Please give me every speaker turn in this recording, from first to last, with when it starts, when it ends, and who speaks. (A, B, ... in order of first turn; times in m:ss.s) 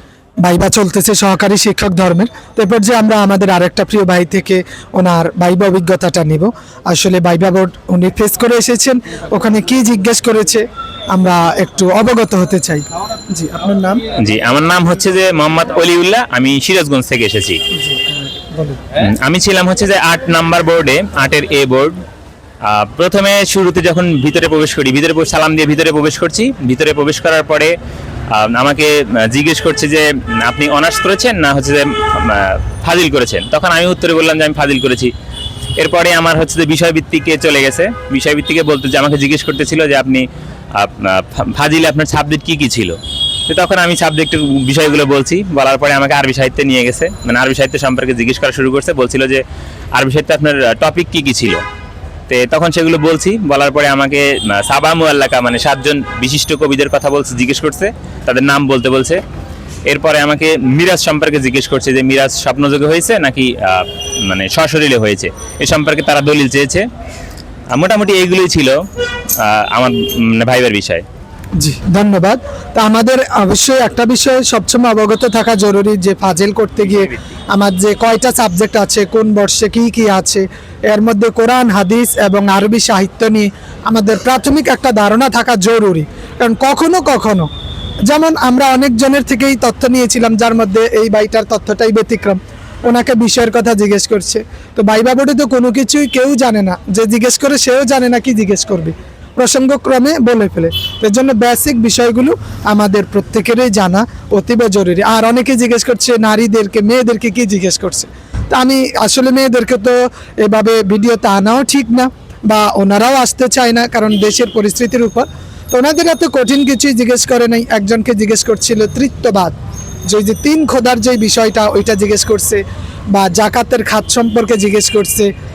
0:00.4-0:14.0 A
0:14.1-0:17.6 B
0:17.7-0:18.8 A
0:18.9-0:22.0 B
0:22.6-0:27.7 B
0:28.3-0:35.1 B
0:35.8-0:43.0 B
0:43.5-0:49.4 B
0:49.9-0:51.6 B
0:52.3-0:59.2 B
0:59.8-1:06.8 B
1:07.7-1:08.8 B
1:09.4-1:11.0 B
1:11.6-1:27.5 A
1:16.8-1:17.3 B
1:28.1-1:59.5 A
2:00.0-2:05.3 A